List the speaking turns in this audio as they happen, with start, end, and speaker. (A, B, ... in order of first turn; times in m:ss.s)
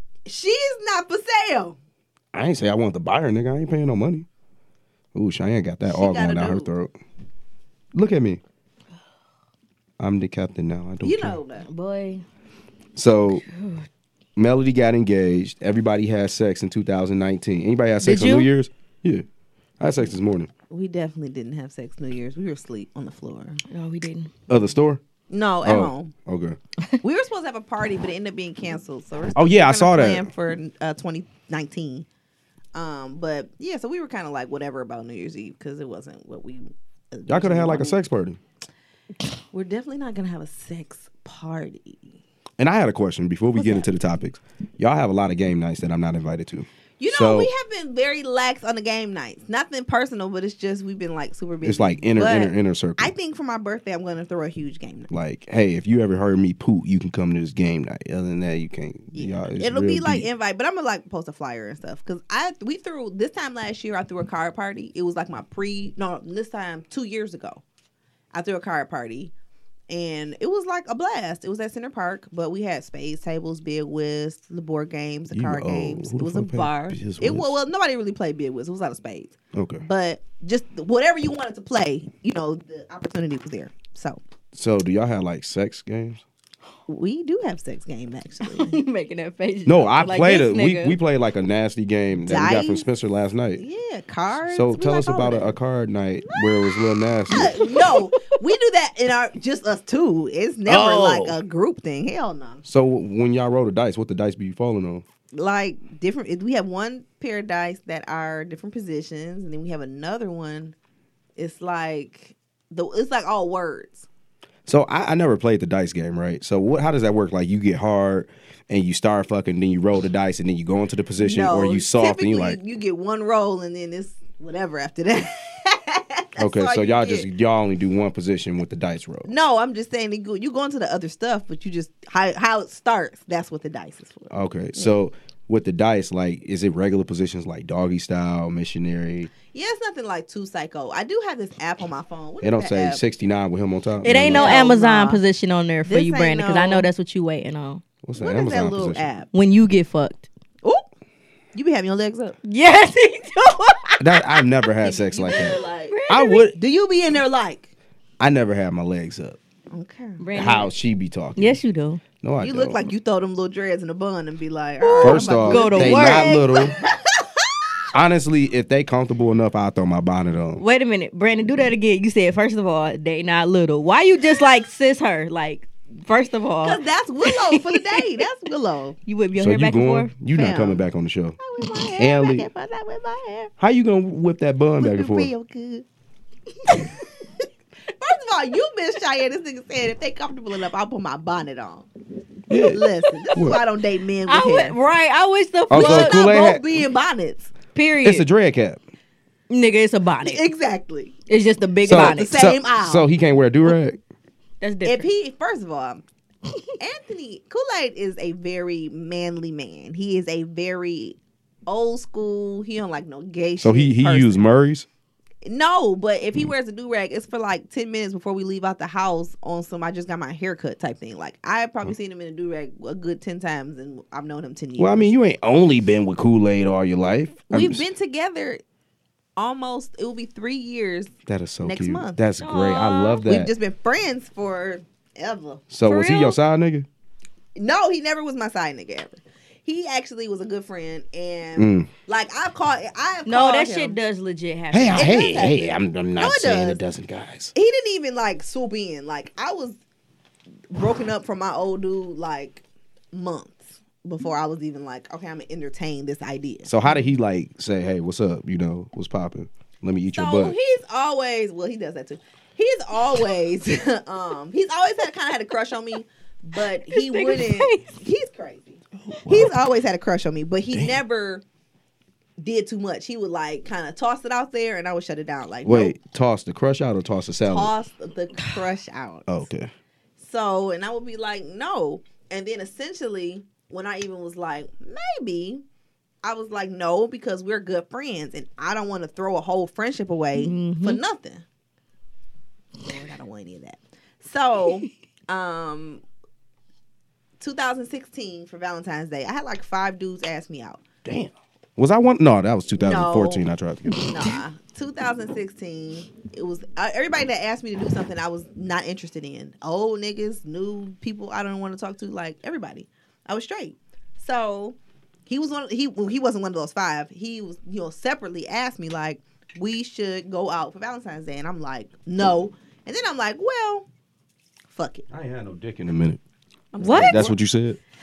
0:00.2-0:01.8 A
0:02.3-0:04.2 B
0:05.1-0:06.9 B
0:05.9-0:06.7 A
0:07.9-0:08.4 B
0:10.0-0:11.4 B
0:11.0-0:11.7 A
0:11.6-0:12.2 C
0:13.0-0:13.4 B
0:13.4-0:13.8 C
0:14.4-0:19.2 B
0:18.0-0:18.5 C
0:19.8-0:20.5 B
0:20.7-0:23.6 A
0:23.7-0:24.3 C
0:24.5-0:25.0 B
0:25.3-0:26.1 A
0:25.6-0:26.6 B
0:27.0-0:32.0 A
0:29.3-0:30.3 B
0:32.7-0:38.0 A
0:37.3-0:38.4 B
0:39.5-0:42.1 A
0:42.6-0:47.5 B
0:43.6-0:43.9 A
0:47.0-0:55.1 A
0:51.6-0:53.1 B
0:55.1-1:00.3 B
0:59.1-1:07.6 A
1:08.3-1:09.3 A
1:09.9-1:24.2 A
1:15.3-1:17.6 B
1:19.5-1:19.8 B
1:24.5-1:26.2 B
1:26.9-1:28.8 A
1:28.4-1:31.0 C
1:29.6-1:33.6 B
1:32.3-1:32.8 A
1:33.6-1:35.5 A
1:34.5-1:37.7 B
1:36.3-1:42.6 A
1:37.8-1:38.2 C
1:40.6-1:41.4 B
1:42.6-1:45.0 B
1:45.3-1:50.7 A
1:51.4-1:54.0 A
1:54.6-2:02.6 B
2:01.2-2:07.3 A
2:06.4-2:09.3 B
2:09.2-2:14.9 A
2:14.3-2:19.3 B
2:19.5-2:23.0 A
2:22.4-2:24.6 B
2:24.0-2:27.8 C
2:24.1-2:25.2 A
2:25.8-2:26.9 A
2:28.0-2:29.1 B
2:28.2-2:29.3 A
2:29.3-2:30.3 C
2:31.5-2:32.4 A
2:32.4-2:34.0 C
2:34.0-2:36.6 B
2:34.8-2:36.0 A
2:35.9-2:36.5 C
2:36.5-2:37.7 A
2:38.2-2:39.4 B
2:39.7-2:40.2 A
2:40.2-2:40.7 C
2:40.3-2:41.6 B
2:41.4-2:42.0 C
2:42.2-2:42.9 B
2:42.4-2:47.4 A
2:44.8-2:46.4 C
2:45.0-2:46.7 B
2:47.9-2:50.6 B
2:50.6-2:58.0 C
2:56.6-2:59.0 A
2:59.0-3:00.1 C
2:59.4-3:01.4 B
3:00.3-3:00.8 A
3:01.4-3:03.5 A
3:02.0-3:02.5 B
3:03.6-3:05.3 B
3:04.8-3:05.8 A
3:08.0-3:11.9 A
3:12.5-3:13.6 B
3:12.5-3:14.8 A
3:14.2-3:16.3 C
3:15.7-3:16.6 B
3:15.7-3:17.5 A
3:17.7-3:18.3 C
3:18.0-3:18.8 B
3:19.5-3:20.4 C
3:20.2-3:21.1 A
3:21.3-3:22.3 C
3:21.8-3:24.0 B
3:21.9-3:23.1 A
3:24.6-3:25.1 C
3:24.8-3:26.0 A
3:26.8-3:34.4 A
3:33.6-3:34.8 B
3:35.4-3:45.1 A
3:44.8-3:47.9 B
3:47.5-3:48.6 A
3:49.4-3:52.2 A
3:51.2-3:53.5 B
3:52.4-3:53.3 C
3:53.2-3:55.7 A
3:55.7-3:56.9 B
3:55.8-3:56.3 C
3:57.5-4:04.0 A
4:01.6-4:01.9 B
4:03.2-4:05.1 C
4:04.7-4:07.5 B
4:04.9-4:06.8 A
4:07.5-4:09.8 A
4:10.7-4:16.7 A
4:16.6-4:20.6 B
4:20.1-4:31.4 A
4:26.9-4:27.9 C
4:29.1-4:29.5 B
4:30.7-4:31.0 B
4:32.4-4:36.0 A
4:35.6-4:37.7 B
4:37.5-4:39.4 A
4:39.3-4:39.7 B
4:40.2-4:45.6 A
4:46.2-4:51.4 A
4:50.4-4:51.0 C
4:52.8-4:56.0 A
4:57.4-5:00.8 A
5:01.0-5:04.1 B
5:02.8-5:14.8 A
5:15.3-5:23.8 A
5:24.7-5:25.1 A
5:25.1-5:26.2 B
5:26.7-5:27.3 A
5:26.8-5:27.3 C
5:26.8-5:27.8 B